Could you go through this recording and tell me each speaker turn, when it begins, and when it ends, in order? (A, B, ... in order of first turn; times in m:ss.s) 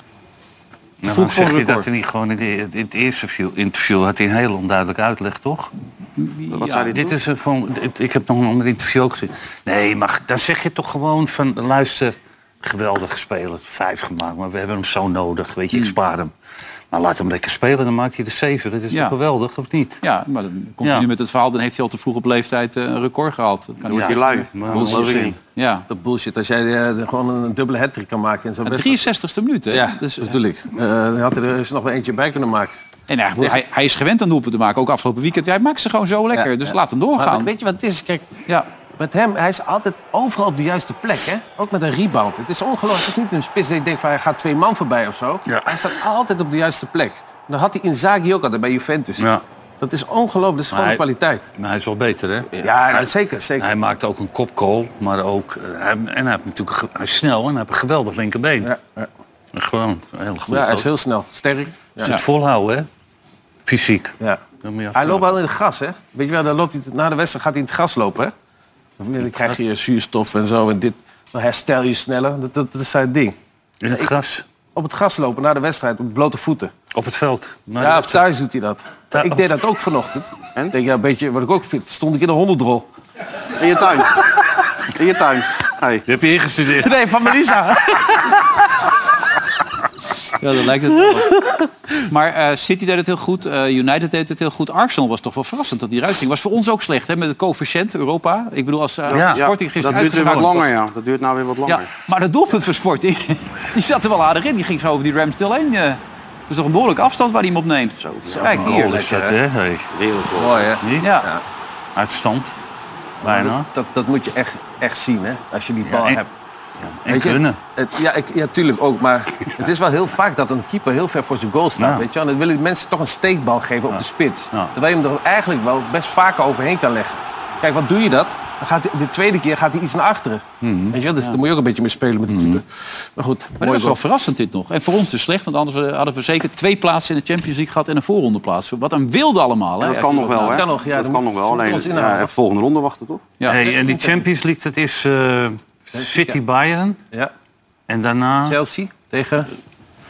0:01.0-0:05.7 A
0:01.1-0:01.9 B
0:06.2-0:07.0 B
0:06.5-0:07.2 C
0:06.9-0:16.3 A
0:16.9-0:20.0 A
0:18.9-0:19.2 B
0:20.0-0:25.9 B
0:20.8-0:21.1 A
0:23.9-0:25.4 C
0:23.9-0:25.4 A
0:25.9-0:29.1 D
0:28.6-0:30.4 B
0:29.7-0:32.7 D
0:33.1-0:37.5 B
0:36.3-0:38.3 D
0:39.0-0:49.3 D
0:45.5-0:45.9 A
0:49.8-0:51.4 D
0:50.7-0:51.0 A
0:51.6-0:58.7 A
0:52.6-0:53.7 D
0:58.6-0:59.1 D
0:59.5-1:00.9 A
1:00.5-1:02.2 D
1:02.0-1:02.9 A
1:03.7-1:05.4 A
1:04.9-1:08.3 D
1:09.0-1:13.4 D
1:09.3-1:09.6 A
1:13.8-1:14.4 A
1:14.8-1:16.7 D
1:16.9-1:18.3 A
1:17.8-1:22.9 D
1:19.1-1:19.5 A
1:23.6-1:26.0 C
1:26.1-1:27.3 A
1:26.7-1:28.4 D
1:30.4-1:31.2 B
1:30.6-1:31.7 D
1:32.1-1:40.7 B
1:39.1-1:41.9 C
1:39.1-1:40.5 A
1:41.7-1:49.0 B
1:48.0-1:48.4 C
1:48.3-1:49.4 D
1:48.4-1:49.9 A
1:49.9-1:50.8 C
1:50.4-1:51.4 D
1:50.8-1:51.1 A
1:51.0-1:51.3 B
1:52.0-1:52.6 A
1:53.2-1:53.7 A
1:53.2-1:56.3 D
1:55.9-1:56.2 A
1:56.8-1:57.6 A
1:57.1-2:14.0 D
2:01.8-2:02.1 A
2:03.9-2:04.8 A
2:10.6-2:11.0 A
2:13.6-2:20.6 B
2:19.8-2:23.2 C
2:20.4-2:22.3 D
2:23.4-2:27.0 A
2:23.5-2:24.2 D
2:26.0-2:26.4 D
2:27.9-2:28.6 A
2:28.4-2:29.5 D